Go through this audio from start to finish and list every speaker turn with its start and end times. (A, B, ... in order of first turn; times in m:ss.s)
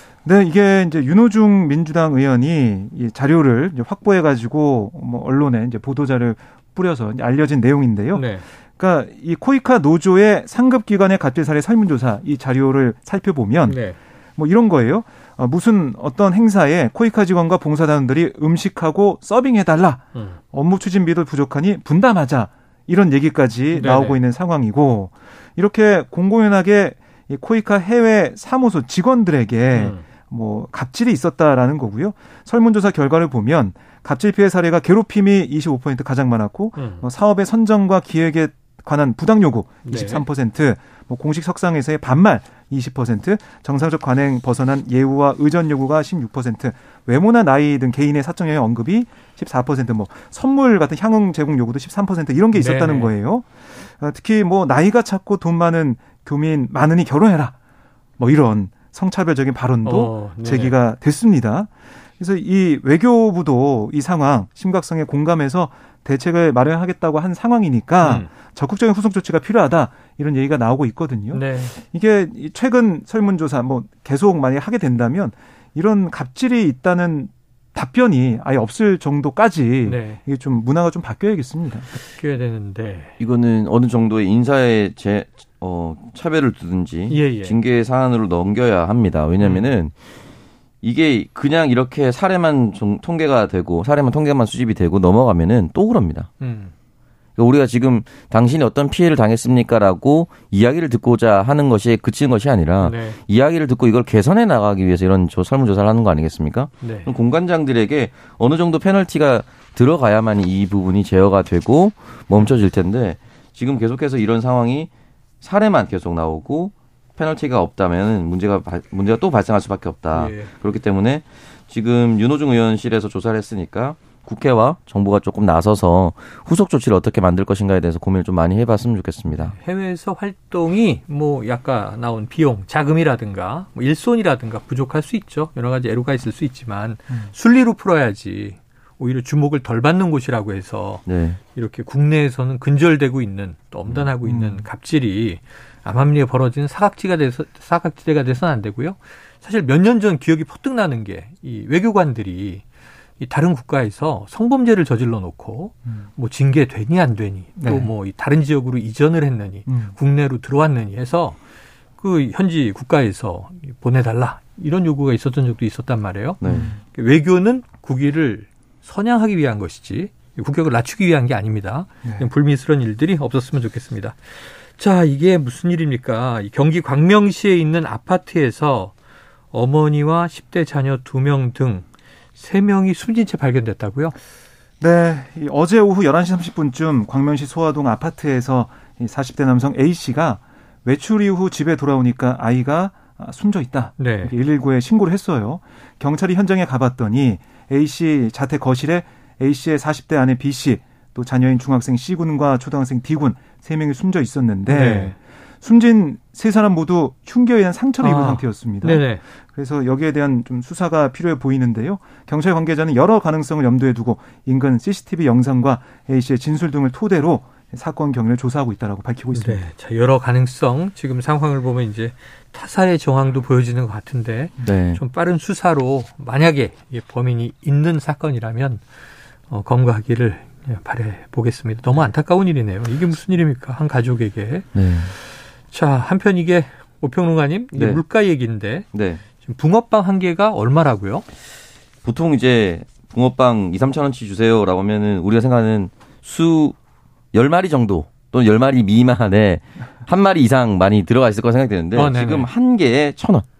0:00.2-0:13.8 A
0:08.1-0:08.4 B
0:13.6-0:14.0 B
0:14.4-0:57.5 A
0:23.7-0:24.2 B
0:29.7-0:30.0 B
0:36.7-0:37.0 B
0:39.8-0:40.2 B
0:52.5-0:53.1 B
0:58.2-1:21.9 A
0:59.8-1:00.8 B
1:08.0-1:08.3 B
1:11.3-1:11.8 B
1:19.8-1:20.2 B
1:22.0-1:23.1 B
1:23.2-1:29.9 C
1:27.1-1:27.6 B
1:29.4-1:29.6 B
1:30.8-1:36.3 C
1:36.4-1:36.7 B
1:37.4-1:54.9 C
1:42.8-1:43.2 B
1:46.8-1:47.1 B
1:55.4-2:09.5 C
2:00.1-2:00.5 B
2:09.4-2:21.0 B
2:21.0-2:21.4 C
2:21.5-2:32.6 B
2:24.2-2:24.7 A
2:33.2-2:41.4 B
2:37.6-2:37.9 A
2:39.7-2:39.9 A
2:42.0-2:58.9 B
2:46.4-2:46.7 C
2:46.4-2:46.8 A
2:52.0-2:52.3 A
2:59.5-3:01.8 B
3:02.4-3:04.2 B
3:04.8-3:39.6 A
3:14.0-3:14.3 B
3:24.7-3:25.1 B
3:28.0-3:29.2 B
3:39.3-3:48.8 B
3:44.6-3:45.0 C
3:49.5-3:54.7 B
3:54.7-3:55.1 C
3:55.7-3:58.8 B
3:57.7-3:58.0 C
3:58.9-3:59.2 C
3:59.4-4:01.2 B
4:02.0-4:06.8 C
4:07.3-4:13.4 C
4:11.9-4:12.5 B